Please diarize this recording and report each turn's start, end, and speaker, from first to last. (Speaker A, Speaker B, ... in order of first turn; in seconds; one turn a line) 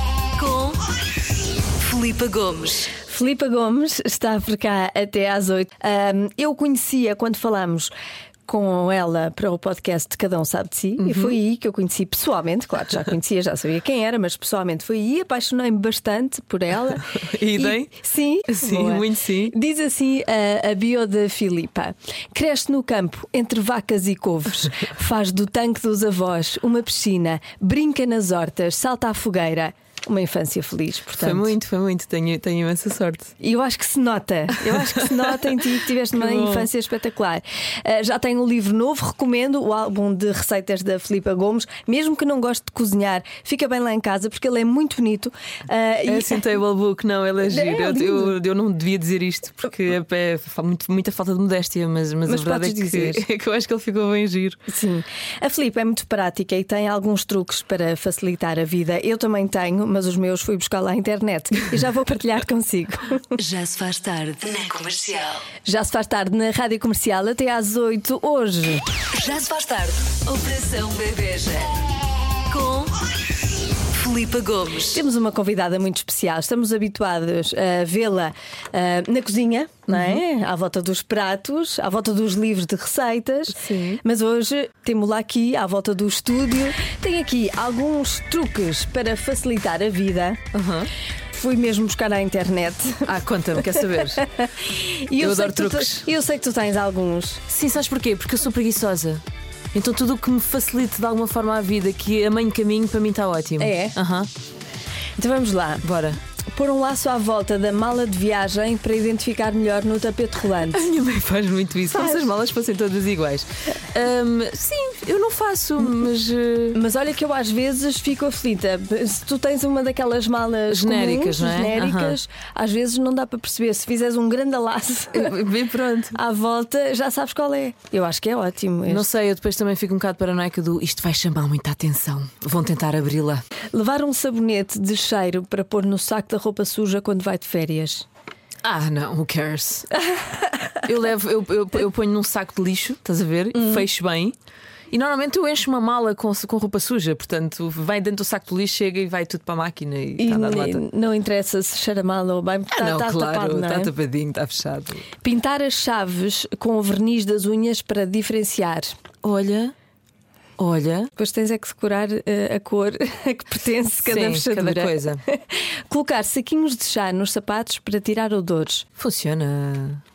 Speaker A: 0.4-0.7
Speaker B: 1.8-2.8
Speaker A: 2.8-7.9
Speaker A: 8.5-31.5
Speaker C: 11.0-11.4
Speaker C: 17.1-18.0
Speaker C: 18.5-19.5
Speaker C: 31.2-33.3
Speaker A: 33.4-46.4
Speaker C: 34.6-36.7
Speaker C: 46.1-54.6
Speaker A: 47.4-48.3
Speaker A: 52.3-53.2
Speaker A: 54.7-63.5
Speaker B: 63.4-65.4
Speaker A: 65.6-69.0
Speaker B: 69.1-71.8
Speaker B: 72.5-73.0
Speaker B: 73.9-74.8
Speaker A: 74.6-90.4
Speaker C: 79.9-80.2
Speaker C: 83.5-84.0
Speaker C: 90.5-90.9
Speaker A: 91.3-93.1
Speaker C: 93.0-94.2
Speaker A: 93.6-97.4
Speaker C: 95.2-96.1
Speaker C: 97.5-99.2
Speaker C: 99.7-104.3
Speaker A: 103.6-104.0
Speaker A: 105.2-105.8
Speaker C: 105.8-106.2
Speaker A: 106.5-110.8
Speaker C: 110.6-116.8
Speaker A: 111.9-112.2
Speaker A: 116.7-125.3
Speaker C: 120.7-122.2
Speaker C: 125.1-126.2
Speaker A: 126.1-129.1
Speaker C: 128.9-133.4
Speaker A: 133.7-138.1
Speaker C: 138.6-139.9
Speaker A: 140.1-140.8
Speaker C: 140.8-144.3
Speaker A: 143.5-143.8
Speaker C: 144.9-150.8
Speaker A: 150.2-153.9
Speaker C: 152.7-155.1
Speaker A: 155.2-158.9
Speaker C: 159.2-159.7
Speaker C: 160.6-161.1
Speaker A: 161.2-168.8
Speaker C: 164.1-165.2
Speaker C: 169.0-170.0